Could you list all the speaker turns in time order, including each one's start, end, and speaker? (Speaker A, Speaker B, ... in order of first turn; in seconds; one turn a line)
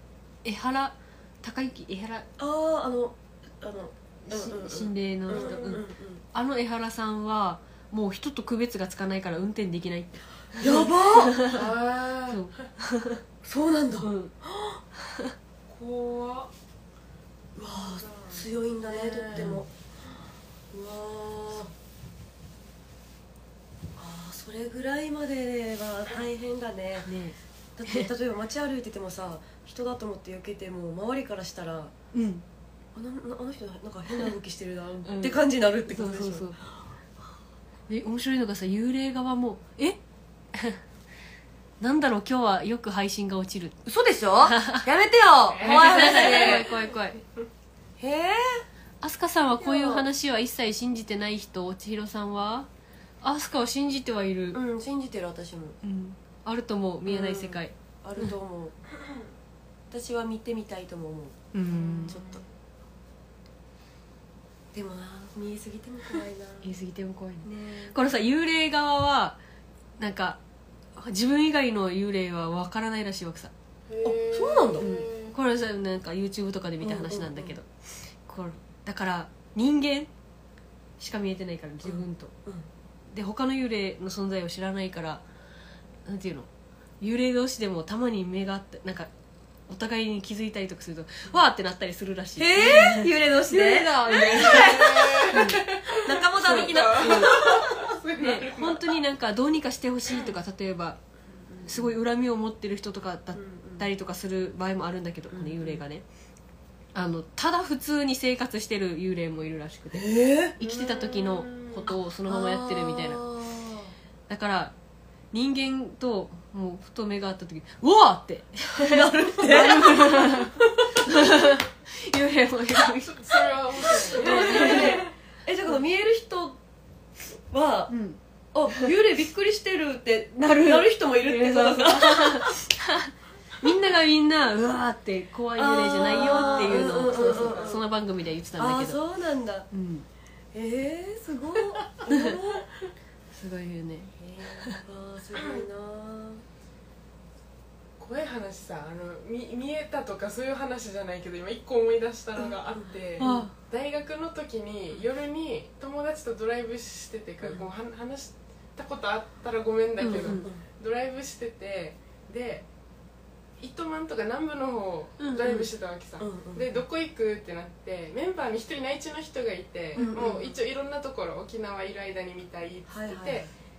Speaker A: 0.4-2.3
Speaker B: 2.4-6.2
Speaker A: 4.3-5.8
Speaker C: 5.3-5.8
Speaker A: 6.3-11.7
Speaker B: 10.5-11.4
Speaker C: 11.5-12.7
Speaker A: 12.3-13.2
Speaker B: 13.4-14.8
Speaker A: 14.0-14.3
Speaker A: 15.0-15.3
Speaker C: 15.7-16.5
Speaker B: 17.6-19.7
Speaker C: 17.7-19.5
Speaker A: 19.3-19.6
Speaker B: 20.7-21.7
Speaker B: 23.9-27.1
Speaker A: 27.1-28.1
Speaker B: 27.8-31.9
Speaker A: 32.1-32.4
Speaker B: 32.9-36.5
Speaker A: 35.0-36.6
Speaker A: 37.9-40.0
Speaker A: 40.5-40.8
Speaker A: 41.8-43.8
Speaker B: 43.9-46.7
Speaker A: 44.4-44.9
Speaker C: 45.5-46.9
Speaker A: 45.6-47.2
Speaker B: 48.0-48.6
Speaker A: 49.0-52.7
Speaker B: 49.5-50.1
Speaker A: 53.2-54.6
Speaker B: 54.5-55.8
Speaker A: 55.8-58.3
Speaker B: 57.0-58.8
Speaker B: 59.9-62.4
Speaker A: 61.5-62.2
Speaker C: 61.7-62.4
Speaker B: 64.7-66.7
Speaker A: 66.6-69.4
Speaker B: 67.4-68.0
Speaker A: 70.0-70.4
Speaker A: 71.0-73.5
Speaker C: 73.9-75.3
Speaker B: 74.0-74.9
Speaker A: 74.8-77.7
Speaker B: 76.8-77.5
Speaker A: 78.2-80.1
Speaker A: 81.0-82.3
Speaker B: 81.8-82.7
Speaker A: 83.1-85.2
Speaker A: 86.0-86.5
Speaker A: 87.0-89.1
Speaker A: 89.7-95.6
Speaker B: 92.4-97.9
Speaker C: 94.0-99.0
Speaker A: 96.4-97.4
Speaker A: 98.2-101.0
Speaker B: 101.3-102.0
Speaker A: 101.7-106.0
Speaker B: 103.3-103.9
Speaker B: 105.3-105.8
Speaker A: 106.9-113.2
Speaker B: 109.9-110.5
Speaker C: 110.6-111.9
Speaker B: 112.3-113.9
Speaker A: 114.3-114.7
Speaker A: 115.3-125.0
Speaker B: 118.8-121.1
Speaker C: 123.0-125.1
Speaker B: 123.8-126.6
Speaker B: 127.5-127.9
Speaker A: 127.9-128.2
Speaker B: 128.5-132.6
Speaker A: 130.4-139.0
Speaker B: 135.5-137.8
Speaker C: 136.3-137.8
Speaker B: 138.6-139.7
Speaker A: 139.7-140.1
Speaker B: 140.5-142.7
Speaker A: 142.1-142.3
Speaker A: 143.3-144.8
Speaker B: 144.2-146.4
Speaker C: 145.4-145.6
Speaker C: 148.0-162.7
Speaker B: 152.4-153.5
Speaker A: 153.2-153.5
Speaker A: 160.0-160.5
Speaker B: 160.2-160.6
Speaker C: 163.6-173.5
Speaker A: 165.2-165.7
Speaker B: 166.2-166.8
Speaker A: 169.9-170.3
Speaker B: 169.9-170.6
Speaker B: 172.9-173.5